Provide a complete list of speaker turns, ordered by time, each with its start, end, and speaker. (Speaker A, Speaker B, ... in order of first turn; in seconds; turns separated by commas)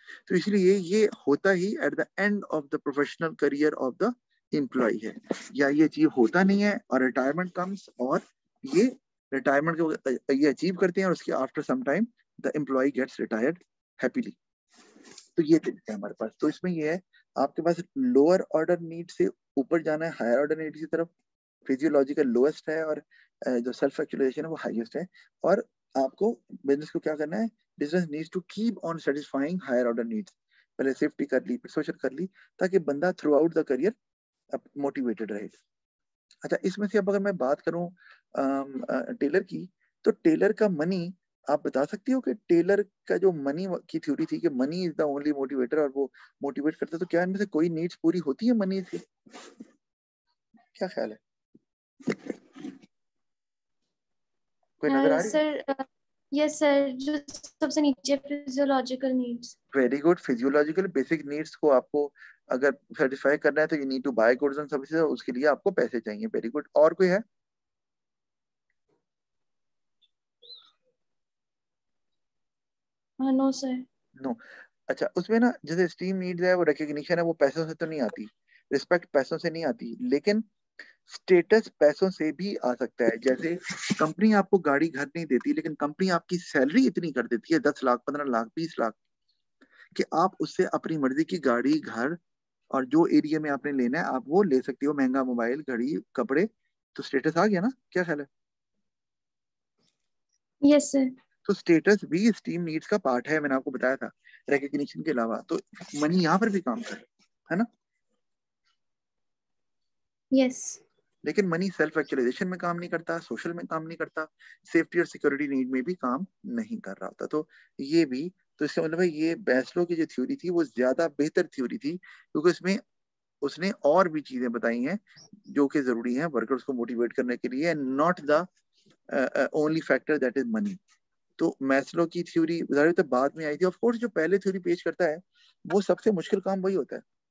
Speaker A: 0.3-14.4, Speaker A: 15.3-21.1, Speaker A: 21.6-33.9, Speaker A: 34.5-35.5, Speaker A: 36.4-49.1, Speaker A: 50.7-51.2, Speaker A: 54.8-55.4, Speaker B: 54.9-59.5, Speaker A: 59.7-67.2, Speaker B: 73.2-73.8, Speaker A: 74.2-80.4, Speaker A: 81.1-89.0, Speaker A: 89.9-92.2, Speaker A: 92.7-98.3, Speaker B: 100.6-101.1, Speaker A: 101.5-107.7, Speaker B: 110.3-110.8, Speaker A: 111.2-122.8, Speaker A: 123.4-128.5, Speaker A: 129.1-130.8, Speaker A: 131.4-137.0